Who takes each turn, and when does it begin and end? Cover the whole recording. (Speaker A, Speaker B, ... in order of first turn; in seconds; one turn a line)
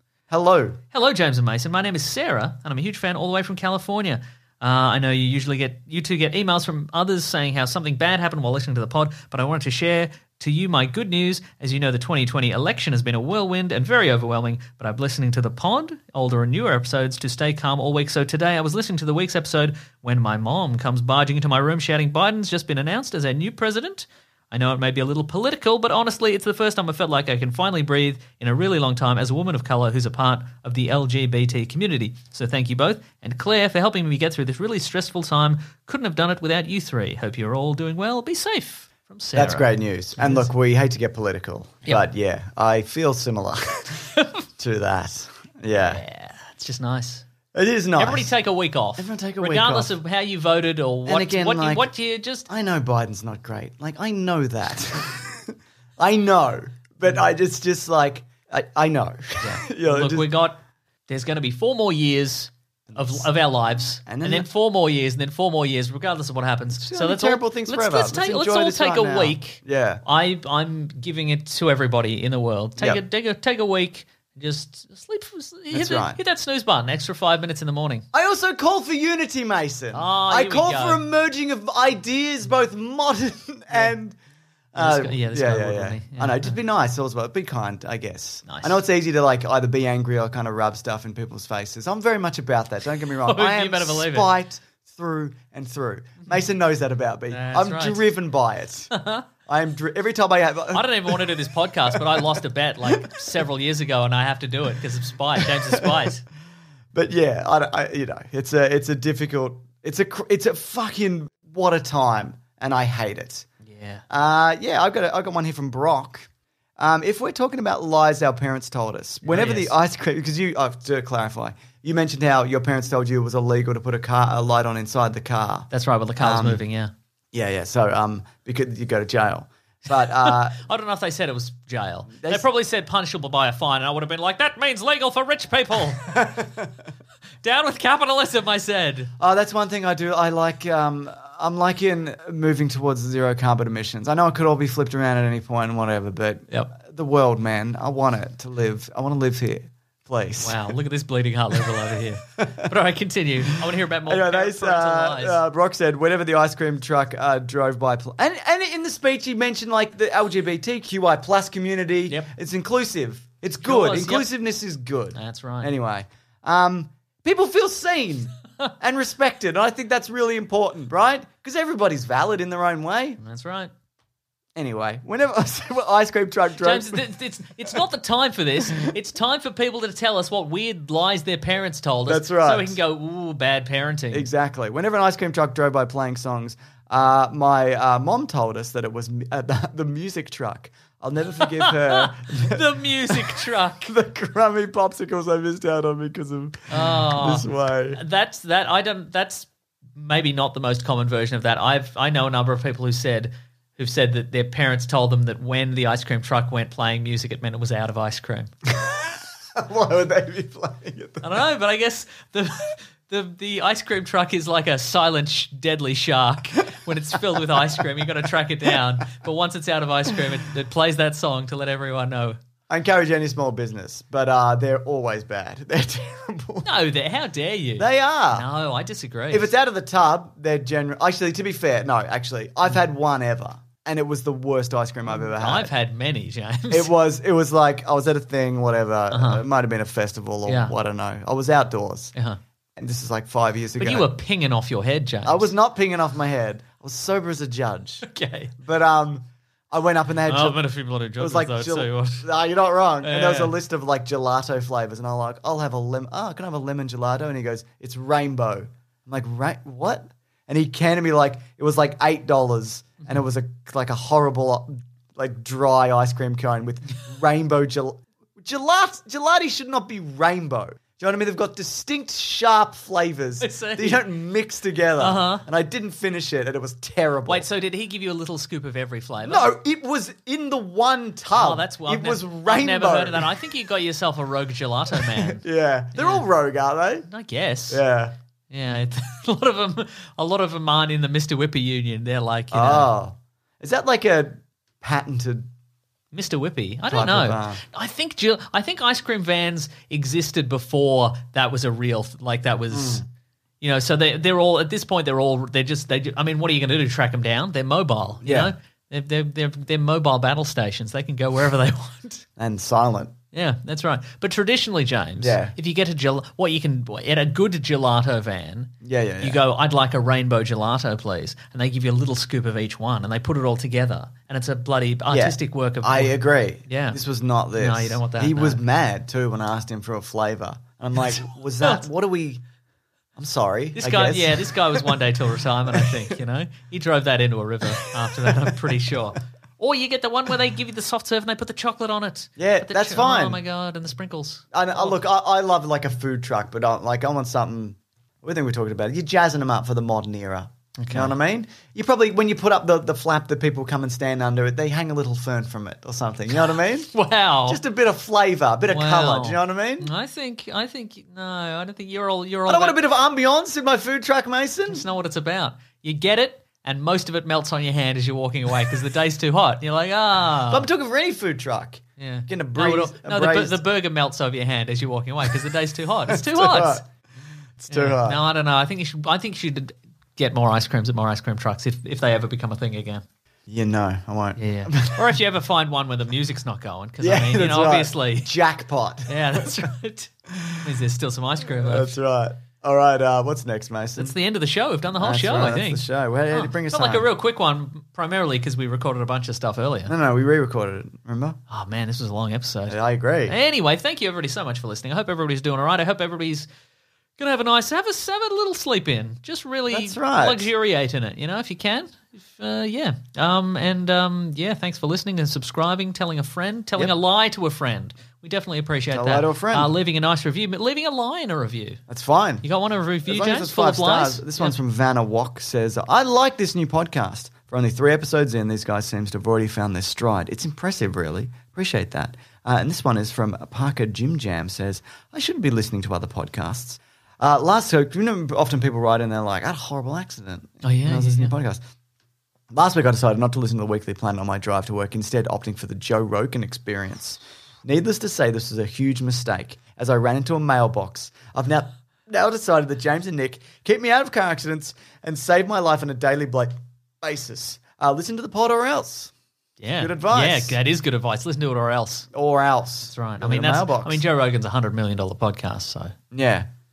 Speaker A: 0.3-0.8
Speaker B: 0.9-40.5
Speaker A: 39.3-46.0
Speaker B: 45.8-47.2
Speaker A: 47.5-48.3
Speaker B: 48.0-52.5
Speaker A: 49.0-50.0
Speaker A: 51.0-51.9
Speaker A: 52.5-60.3
Speaker B: 59.4-78.0
Speaker A: 62.9-63.3
Speaker A: 64.0-64.5
Speaker A: 66.8-70.0
Speaker A: 75.7-76.2
Speaker A: 78.1-84.2
Speaker B: 79.9-81.0
Speaker A: 84.7-98.9
Speaker B: 84.8-86.6
Speaker B: 88.5-88.8
Speaker B: 93.2-94.3
Speaker B: 97.3-98.0
Speaker B: 98.9-99.2
Speaker A: 99.5-103.2
Speaker B: 100.7-106.2
Speaker A: 105.4-106.0
Speaker A: 106.9-113.5
Speaker B: 113.6-114.0
Speaker A: 114.1-126.6
Speaker B: 119.2-119.7
Speaker B: 125.7-126.9
Speaker A: 127.3-130.6
Speaker B: 130.1-136.1
Speaker A: 132.1-132.4
Speaker A: 136.0-136.7
Speaker B: 137.4-139.1
Speaker A: 139.2-150.7
Speaker B: 150.4-155.4
Speaker A: 152.4-152.7
Speaker A: 154.1-173.2
Speaker B: 163.6-164.3
Speaker B: 165.1-165.7
Speaker B: 173.2-173.7
Speaker A: 174.6-177.1
Speaker B: 176.6-184.3
Speaker A: 182.1-182.8
Speaker A: 184.1-198.0
Speaker B: 191.4-193.9
Speaker B: 196.7-208.5
Speaker A: 208.7-211.2
Speaker B: 211.2-222.4
Speaker A: 217.4-217.8
Speaker A: 222.7-226.7
Speaker B: 226.6-229.5
Speaker A: 227.8-228.5
Speaker A: 229.3-235.7
Speaker B: 235.1-236.9
Speaker A: 236.7-242.1
Speaker B: 239.1-239.4
Speaker B: 240.4-240.7
Speaker A: 242.8-244.1
Speaker B: 243.8-245.5
Speaker A: 245.2-248.1
Speaker B: 248.0-248.5
Speaker A: 248.6-250.6
Speaker B: 250.3-252.2
Speaker A: 251.2-277.5
Speaker B: 253.0-253.5
Speaker B: 273.4-274.1
Speaker B: 275.0-275.4
Speaker B: 277.2-279.5
Speaker A: 279.2-283.4
Speaker B: 281.3-285.4
Speaker A: 284.9-287.1
Speaker B: 285.9-286.2
Speaker B: 287.1-287.8
Speaker A: 287.7-288.1
Speaker B: 288.5-292.9
Speaker A: 292.5-295.5
Speaker B: 296.1-303.0
Speaker A: 296.9-297.6
Speaker A: 302.7-303.0
Speaker B: 303.6-312.2
Speaker A: 308.2-308.5
Speaker A: 312.4-313.1
Speaker B: 313.3-327.0
Speaker A: 315.2-315.5
Speaker A: 318.8-319.4
Speaker A: 325.1-332.4
Speaker B: 327.6-328.6
Speaker B: 331.0-331.8
Speaker A: 333.2-335.0
Speaker B: 333.8-345.0
Speaker A: 335.7-336.1
Speaker A: 338.1-338.7
Speaker A: 342.4-343.4
Speaker A: 344.5-356.9
Speaker B: 350.8-351.2
Speaker B: 356.9-357.6
Speaker A: 357.4-359.9
Speaker B: 358.7-362.8
Speaker A: 362.4-364.8
Speaker B: 364.7-370.7
Speaker A: 370.5-373.6
Speaker B: 372.0-376.8
Speaker A: 376.1-376.8
Speaker A: 377.6-378.2
Speaker B: 377.7-383.0
Speaker A: 383.5-385.1
Speaker B: 384.4-388.3
Speaker A: 387.0-389.4
Speaker B: 389.1-392.0
Speaker A: 390.3-390.6
Speaker A: 391.5-394.2
Speaker B: 394.0-399.9
Speaker A: 394.9-397.1
Speaker A: 399.9-401.4
Speaker B: 401.5-406.5
Speaker A: 402.7-403.4
Speaker B: 407.2-421.8
Speaker A: 409.7-410.5
Speaker A: 418.9-419.7
Speaker A: 421.9-422.4
Speaker B: 422.4-424.6
Speaker A: 423.1-441.6
Speaker B: 440.6-441.3
Speaker A: 442.5-459.1
Speaker B: 459.6-462.1
Speaker A: 459.8-460.6
Speaker A: 462.1-464.0
Speaker B: 462.8-465.9
Speaker A: 466.1-466.5